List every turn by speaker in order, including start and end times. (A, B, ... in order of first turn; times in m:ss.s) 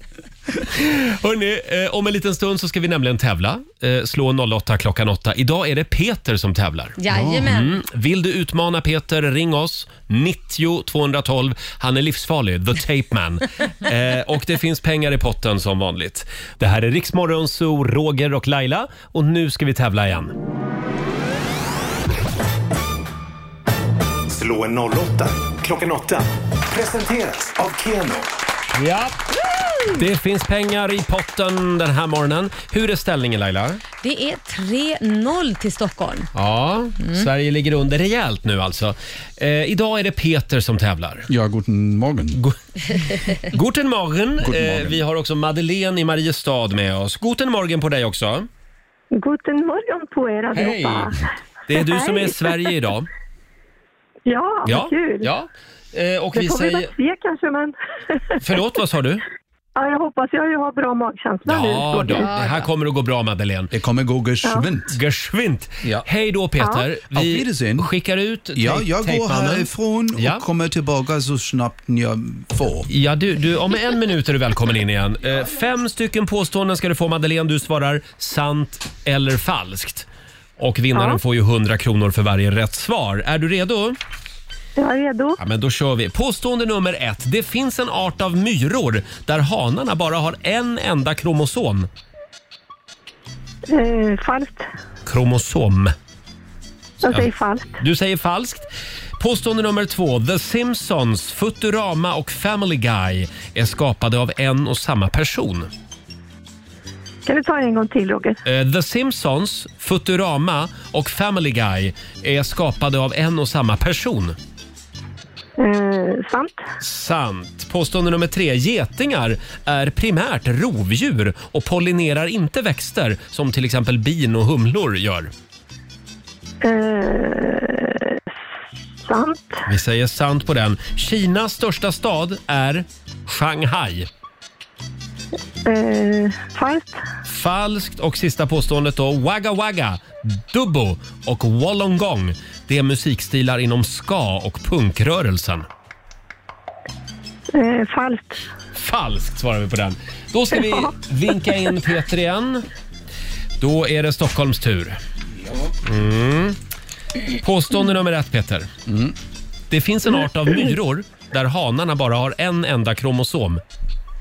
0:00.6-0:20.4 A
0:07.0-0:07.8 B
0:07.1-0:07.5 C
0:24.3-0:28.3 D
0:28.8-0:29.2 A
0:29.8-0:33.8 A
0:34.0-0:36.3 B
0:36.3-0:41.3 A
0:37.0-0:37.3 B
0:41.3-0:42.4 C
0:42.4-0:48.5 A
0:44.4-0:45.0 C
0:49.1-0:51.2 E
0:50.5-0:51.1 A
0:51.7-0:53.1 A
0:51.7-0:52.6 E
0:54.3-0:55.3 E
0:54.6-0:56.9 A
0:56.4-0:58.4 E
0:58.4-0:59.2 A
0:59.8-1:02.5 E
1:01.5-1:03.7 A
1:03.7-1:05.0 C
1:04.4-1:04.7 E
1:04.9-1:10.4 A
1:06.6-1:06.8 E
1:07.1-1:07.9 C
1:08.6-1:12.9 C
1:12.9-1:20.1 A
1:20.6-1:24.0 A
1:20.9-1:21.2 E
1:24.8-1:25.4 E
1:25.4-1:31.9 A
1:33.7-1:34.7 E
1:35.1-1:35.9 A
1:37.0-1:37.7 E
1:37.8-1:45.7 A
1:47.3-1:48.4 E
1:48.4-1:54.4 A
1:55.6-1:56.6 E
1:56.8-2:05.3 A
2:06.6-2:08.2 E
2:09.1-2:09.6 E
2:09.7-2:14.1 A
2:15.6-2:17.0 E
2:17.3-2:25.7 A
2:27.5-2:28.4 E
2:28.8-2:32.6 A
2:33.6-2:35.0 A
2:35.8-2:36.6 A
2:37.4-2:38.7 A
2:38.9-2:39.2 C
2:39.7-2:43.6 A